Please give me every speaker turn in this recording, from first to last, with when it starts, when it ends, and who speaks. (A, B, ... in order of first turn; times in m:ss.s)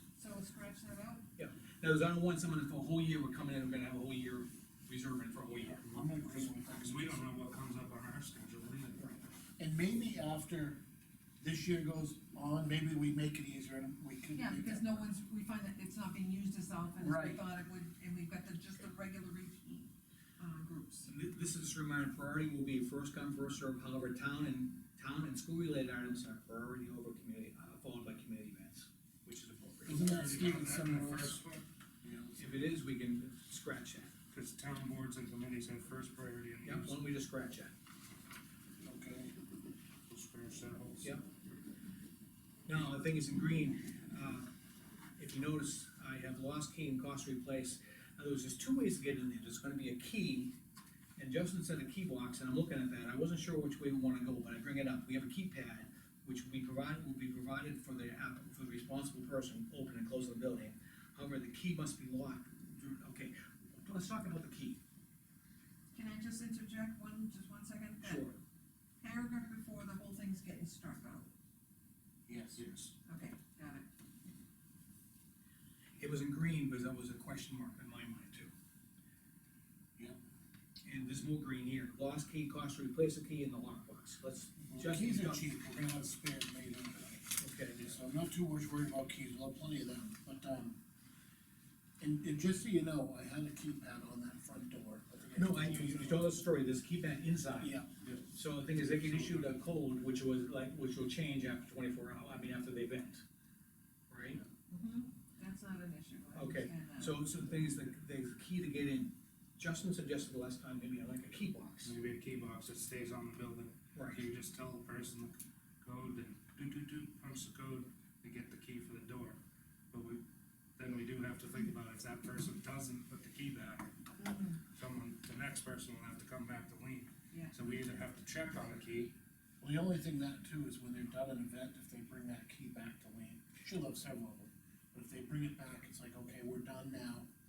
0:00.2-0:01.2 A
0:01.4-0:06.2 B
0:05.8-0:07.2 C
0:06.4-0:09.0 D
0:09.6-0:10.8 C
0:11.4-0:15.0 C
0:14.4-0:21.1 A
0:17.0-0:17.4 C
0:21.0-0:30.3 B
0:29.9-0:31.4 C
0:29.9-0:31.6 D
0:32.0-0:32.5 C
0:32.4-0:34.1 B
0:34.3-0:37.1 D
0:36.6-0:37.7 B
0:38.8-0:39.4 C
0:40.1-0:41.2 D
0:42.7-0:44.5 B
0:42.7-0:43.0 D
0:45.2-0:50.5 B
0:51.2-1:04.8 B
1:05.9-1:08.3 A
1:08.0-1:08.4 B
1:09.0-1:11.3 A
1:12.3-1:12.6 C
1:12.6-1:12.9 D
1:13.0-1:13.9 A
1:16.0-1:18.5 B
1:20.8-1:25.5 B
1:24.7-1:30.8 C
1:27.4-1:27.9 B
1:32.0-1:36.4 C
1:35.3-1:37.8 B
1:37.6-1:37.9 C
1:38.3-1:43.2 B
1:38.8-1:39.6 D
1:44.1-1:44.4 B
1:44.7-1:47.1 A
1:46.3-1:51.9 B
1:51.8-1:59.4 D
1:53.9-1:54.2 B
1:59.9-2:00.2 D
2:00.8-2:03.9 D
2:04.2-2:04.6 A
2:04.7-2:09.1 D
2:07.3-2:07.6 A
2:09.6-2:17.3 C